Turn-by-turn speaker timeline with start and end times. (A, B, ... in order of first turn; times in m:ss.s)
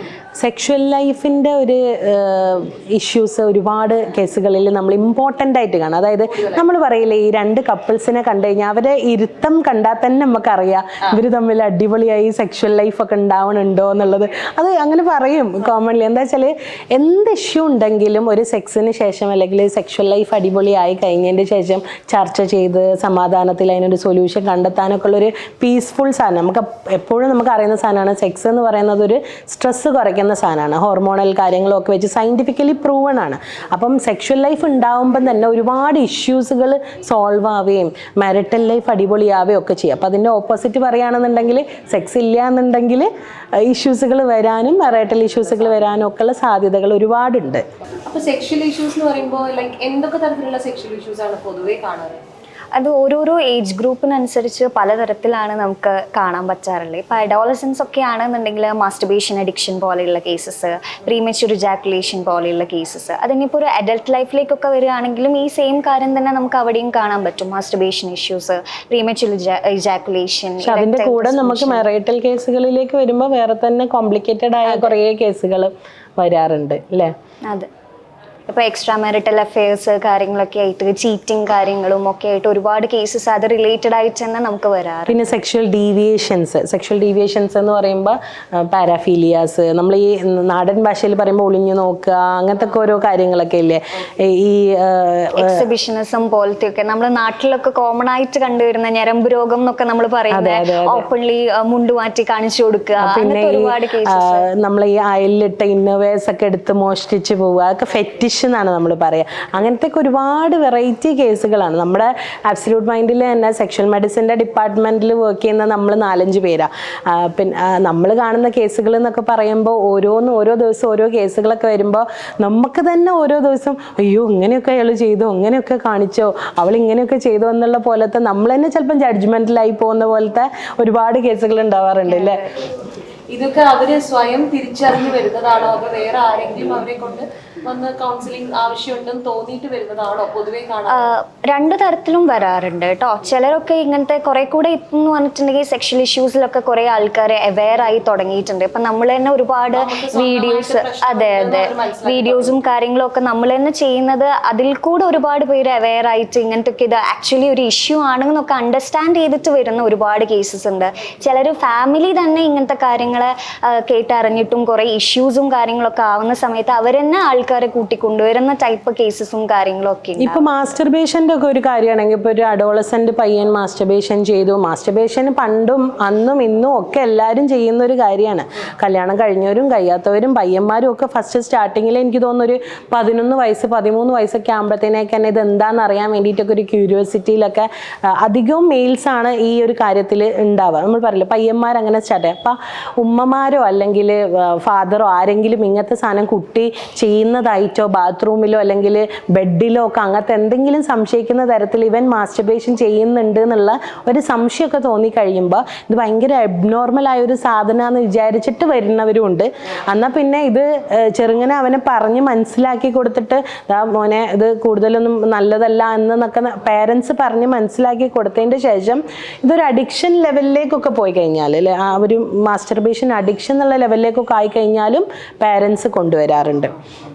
0:00.4-0:47.6 A
0:06.3-0:06.6 B
0:48.1-0:52.2 B
0:52.8-1:11.9 C
1:10.6-1:17.1 A
1:14.6-1:14.9 C
1:18.5-1:25.2 C
1:25.1-1:35.6 A
1:35.4-1:44.4 C
1:40.3-1:41.1 A
1:43.0-2:12.4 A
2:12.1-2:12.5 C
2:13.3-2:21.1 B
2:20.9-2:50.5 C
2:29.7-2:32.6 B
2:50.2-3:46.7 A